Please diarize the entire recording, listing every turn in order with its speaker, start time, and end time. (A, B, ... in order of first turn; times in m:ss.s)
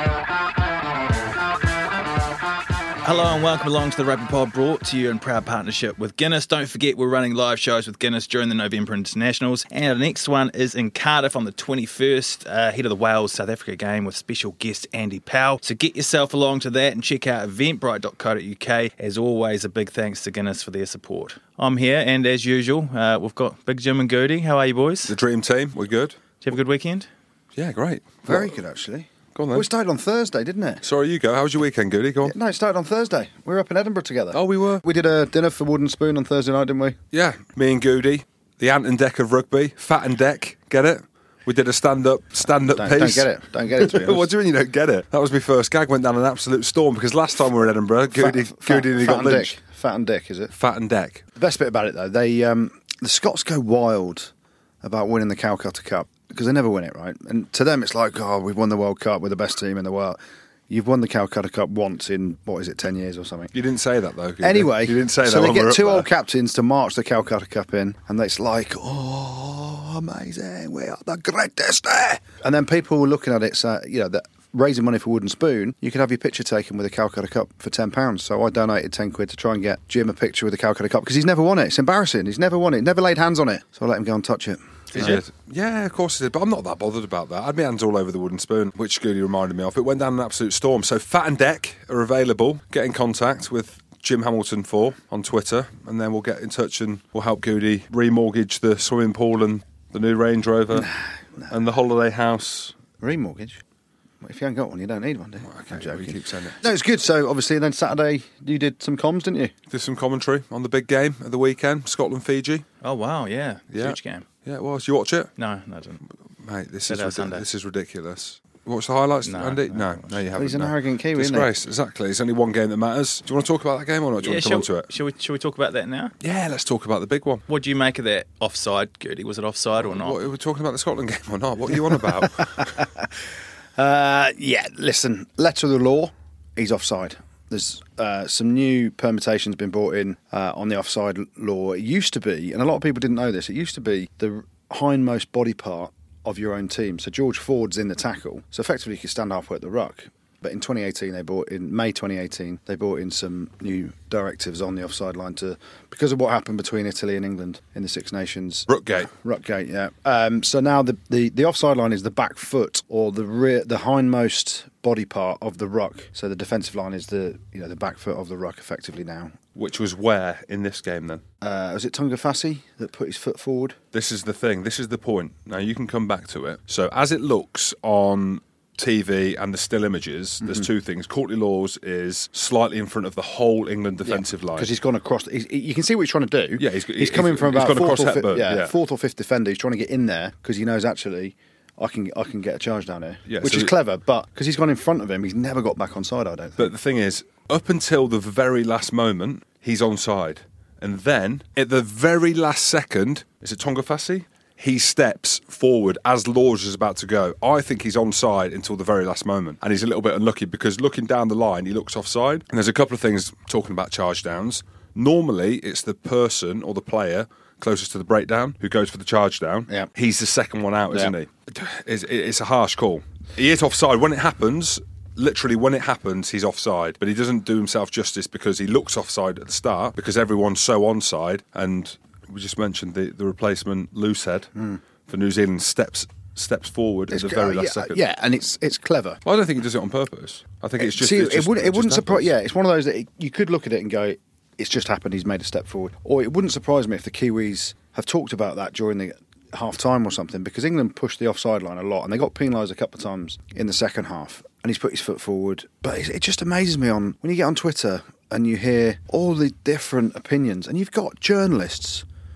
0:03.0-0:25.1 A
0:25.0-0:26.2 B
0:26.4-0:27.1 A
0:27.6-0:28.6 B
0:28.3-0:30.8 C
0:29.3-0:29.7 B
0:30.8-0:32.3 B
0:32.2-0:37.0 C
0:34.3-0:34.8 B
0:37.1-0:49.6 B
0:42.7-0:44.3 C
0:48.1-0:50.5 C
0:50.5-0:51.2 B
0:51.4-0:54.3 C
0:54.8-1:03.5 C
1:03.5-1:06.1 B
1:04.4-1:25.2 C
1:24.9-1:40.9 B
1:40.7-1:41.5 C
1:41.5-1:42.8 B
1:43.0-1:43.6 C
1:44.2-1:49.5 C
1:45.4-1:46.6 B
1:49.7-1:52.7 B
1:52.8-1:54.2 A
1:53.7-1:55.3 B
1:55.4-1:56.0 A
1:56.4-2:04.9 B
1:56.9-1:57.5 A
1:59.2-2:00.2 A
2:00.4-2:01.5 C
2:04.2-2:06.1 A
2:06.2-2:07.4 B
2:07.5-2:10.2 A
2:09.8-2:12.7 B
2:12.6-2:12.9 C
2:13.8-2:49.4 C
2:38.7-2:39.1 B
2:49.6-2:51.2 B
2:51.4-2:53.8 C
2:53.9-3:04.7 B
3:00.4-3:00.7 C
3:04.0-3:16.7 C
3:06.6-3:08.7 B
3:13.2-3:13.7 B
3:16.6-3:54.5 B
3:54.6-3:54.8 C
3:55.1-3:58.0 B
3:57.1-3:59.2 C
3:59.2-4:02.3 B
4:00.8-4:22.0 C